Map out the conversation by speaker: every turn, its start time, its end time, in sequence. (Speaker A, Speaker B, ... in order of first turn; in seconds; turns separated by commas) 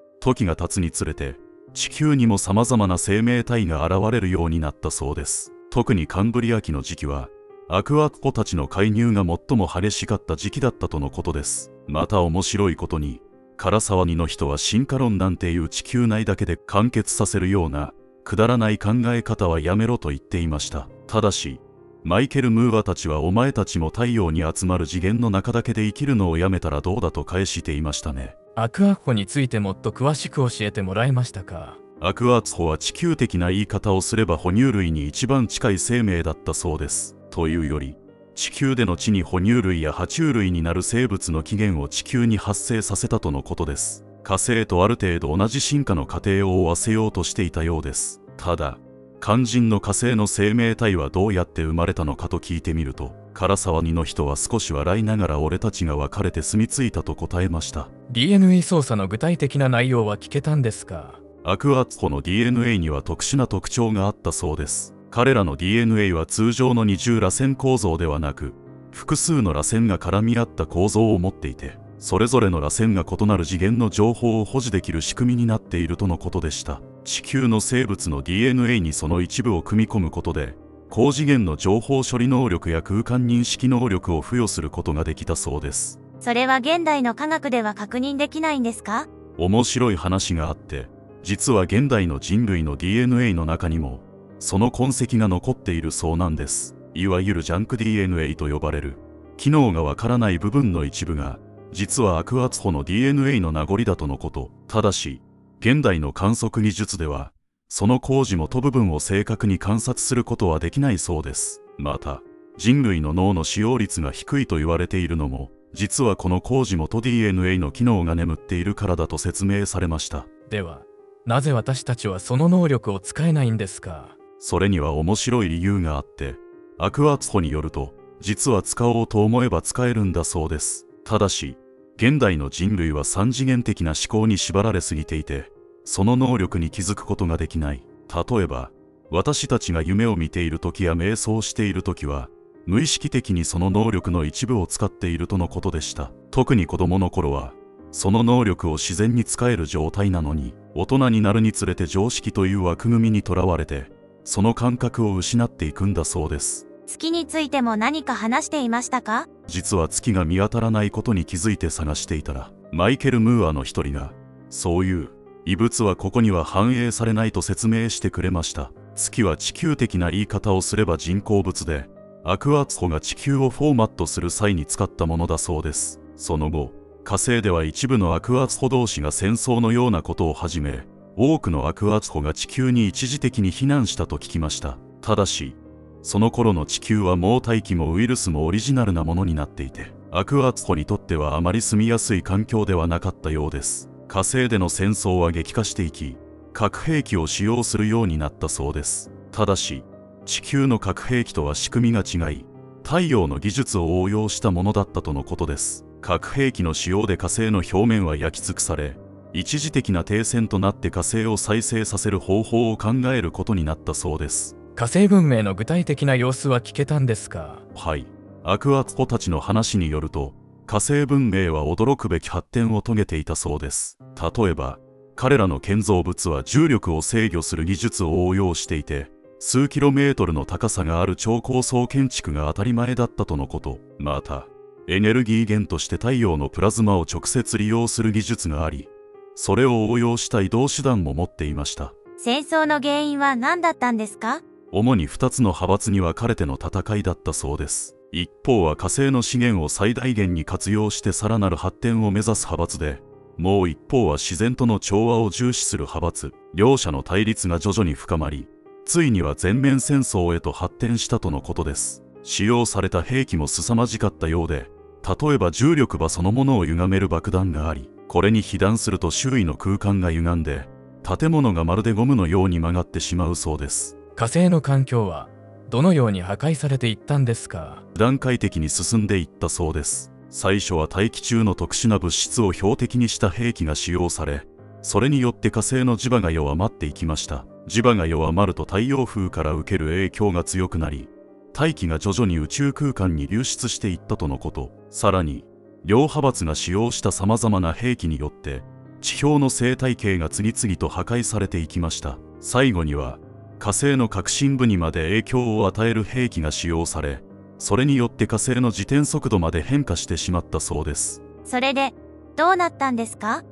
Speaker A: 0.2-28.4, Speaker B: 28.6-31.8, Speaker A: 32.0-57.9, Speaker B: 58.1-61.2, Speaker A: 61.4-86.0, Speaker C: 86.2-89.1, Speaker A: 89.4-120.3, Speaker B: 120.5-124.2, Speaker A: 124.4-156.7, Speaker C: 156.9-159.3, Speaker A: 159.5-214.6, Speaker B: 214.8-217.6, Speaker A: 217.7-241.9, Speaker C: 242.2-244.4, Speaker A: 244.7-273.9, Speaker B: 274.2-277.9, Speaker A: 277.9-311.2, Speaker C: 311.4-313.4